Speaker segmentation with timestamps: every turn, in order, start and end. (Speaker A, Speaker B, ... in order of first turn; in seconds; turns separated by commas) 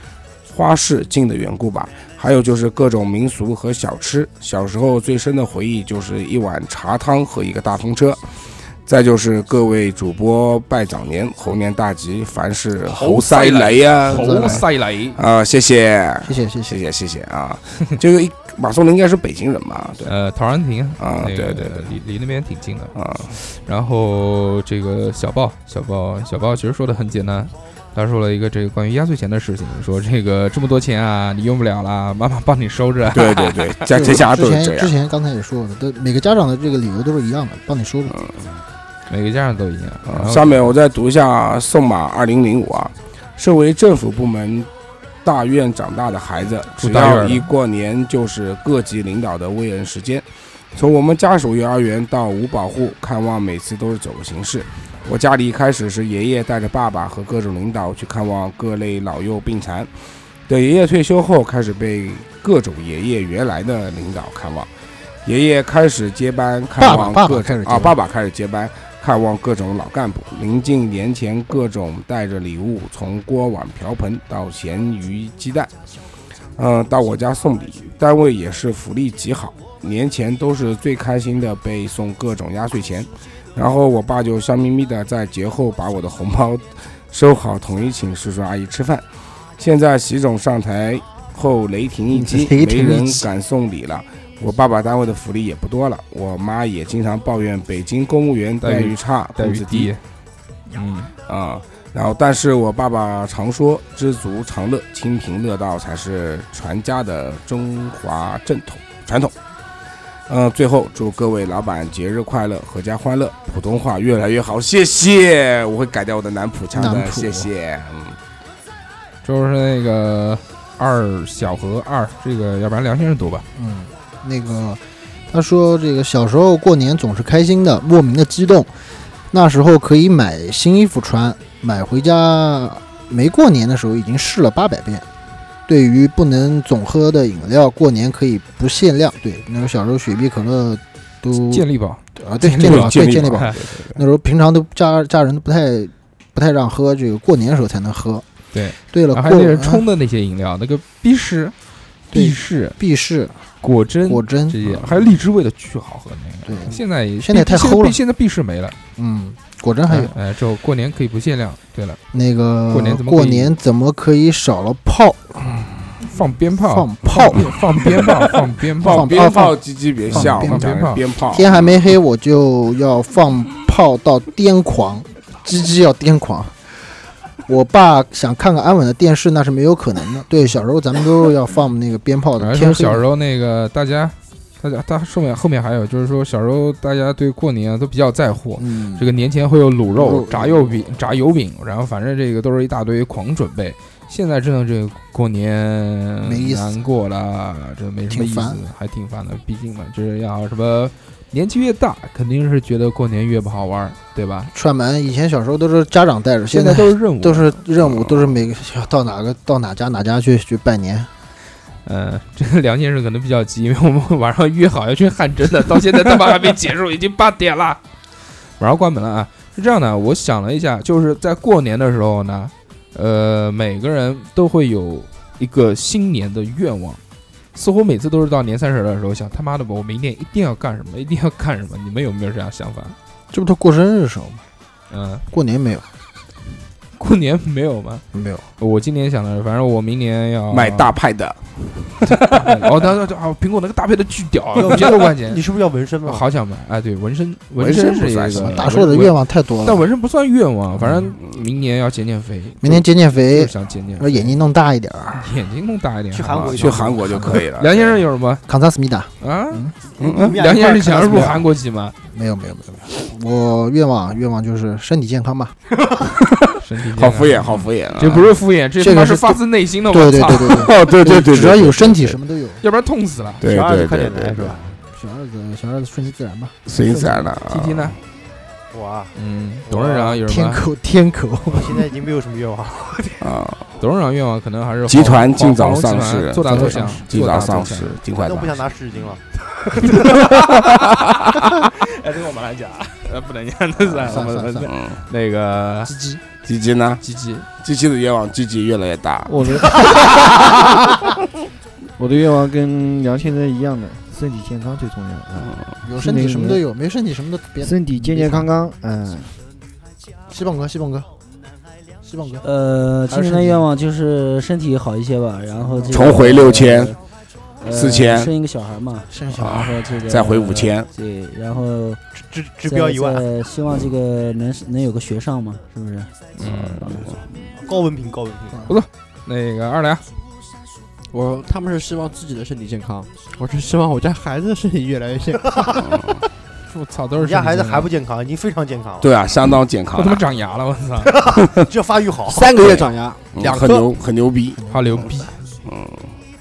Speaker A: 0.5-8.2, Speaker A: 8.9-20.1, Speaker B: 12.8-15.2, Speaker C: 14.1-14.7, Speaker C: 16.2-16.8, Speaker B: 20.1-33.7, Speaker A: 21.0-21.9, Speaker A: 22.9-23.3, Speaker A: 33.1-34.9, Speaker C: 33.9-38.1, Speaker A: 38.1-38.4, Speaker B: 39.1-40.7, Speaker A: 40.1-44.7, Speaker A: 45.2-59.9, Speaker B: 46.8-47.5, Speaker A: 60.5-64.7, Speaker A: 65.2-75.7, Speaker C: 66.8-68.0, Speaker A: 76.5-89.0, Speaker A: 89.6-99.9, Speaker C: 92.1-93.3, Speaker B: 98.6-100.0, Speaker B: 100.7-101.1, Speaker A: 101.3-109.3, Speaker A: 110.3-118.2, Speaker C: 116.7-117.5, Speaker B: 119.2-123.4, Speaker C: 123.5-128.7, Speaker C: 129.3-135.0, Speaker C: 135.7-148.2, Speaker B: 141.4-143.6, Speaker A: 142.6-144.0, Speaker B: 148.5-151.5, Speaker C: 148.9-149.8, Speaker B: 152.1-152.8, Speaker C: 152.1-153.4, Speaker B: 153.6-158.8, Speaker C: 154.1-154.8, Speaker C: 156.4-158.0, Speaker C: 158.9-160.1, Speaker B: 159.9-162.0, Speaker C: 162.1-165.6, Speaker B: 162.7-163.5, Speaker B: 165.4-169.2, Speaker C: 166.6-168.3, Speaker A: 168.8-171.8, Speaker C: 168.8-169.6, Speaker C: 170.1-170.7, Speaker B: 170.1-171.0, Speaker C: 171.3-176.5, Speaker C: 177.5-183.0, Speaker B: 182.4-204.5, Speaker C: 188.6-189.0, Speaker C: 189.9-190.7, Speaker C: 196.2-196.8, Speaker C: 198.1-198.6, Speaker C: 204.5-211.1, Speaker B: 206.5-207.6, Speaker A: 207.9-208.3, Speaker B: 211.8-217.8, Speaker B: 218.6-227.0, Speaker B: 227.5-232.9, Speaker C: 233.3-234.4, Speaker B: 234.9-235.2, Speaker C: 235.3-235.9, Speaker B: 237.0-238.0, Speaker C: 238.1-238.4, Speaker B: 238.6-240.9, Speaker A: 240.5-242.7, Speaker B: 242.1-245.4, Speaker D: 244.5-246.3, Speaker B: 246.0-254.4, Speaker A: 247.6-248.8, Speaker C: 248.3-249.9, Speaker C: 250.8-251.1, Speaker C: 252.6-255.3, Speaker B: 255.1-258.4, Speaker D: 256.1-257.3, Speaker A: 256.3-258.0, Speaker C: 258.5-259.7, Speaker B: 259.2-259.7, Speaker D: 259.8-261.4, Speaker A: 260.0-260.4, Speaker B: 260.3-261.9, Speaker C: 262.1-265.6, Speaker B: 266.6-270.7, Speaker A: 266.8-268.3, Speaker C: 268.8-272.6, Speaker A: 270.4-272.2, Speaker B: 272.6-273.4, Speaker A: 273.4-274.6, Speaker D: 273.4-274.8, Speaker C: 274.9-276.5, Speaker A: 276.6-278.0, Speaker B: 276.8-278.0, Speaker D: 278.7-280.2, Speaker B: 279.1-280.6, Speaker C: 280.2-281.8, Speaker D: 281.5-283.3, Speaker A: 283.2-283.6, Speaker B: 283.8-287.9, Speaker A: 284.9-288.6, Speaker C: 286.5-287.0, Speaker D: 288.2-290.3, Speaker B: 290.0-290.4, Speaker B: 291.5-295.9, Speaker C: 294.0-294.7, Speaker A: 294.7-295.0, Speaker C: 295.9-296.2, Speaker A: 296.4-297.0, Speaker B: 297.0-297.5, Speaker A: 297.6-301.0, Speaker E: 299.3-300.4, Speaker E: 302.0-306.6, Speaker C: 305.8-308.5, Speaker E: 307.6-309.4, Speaker C: 310.3-311.1, Speaker C: 312.0-312.4, Speaker F: 312.4-317.0, Speaker C: 313.1-313.6, Speaker C: 315.6-316.3, Speaker A: 315.9-316.9, Speaker F: 317.6-322.0, Speaker A: 317.7-318.3, Speaker C: 319.1-319.7, Speaker A: 319.3-320.9, Speaker D: 322.1-323.2, Speaker F: 322.6-327.1, Speaker B: 326.4-327.0, Speaker D: 327.5-328.7, Speaker B: 328.7-330.0, Speaker G: 331.1-335.7, Speaker D: 335.4-335.8, Speaker A: 335.8-336.2, Speaker B: 336.7-337.9, Speaker D: 337.1-339.2, Speaker A: 339.0-340.2, Speaker B: 339.9-341.3, Speaker D: 341.0-342.8, Speaker G: 342.2-343.8, Speaker A: 343.3-344.6, Speaker D: 343.5-343.9, Speaker B: 344.7-345.5, Speaker C: 344.8-345.2, Speaker A: 345.6-346.1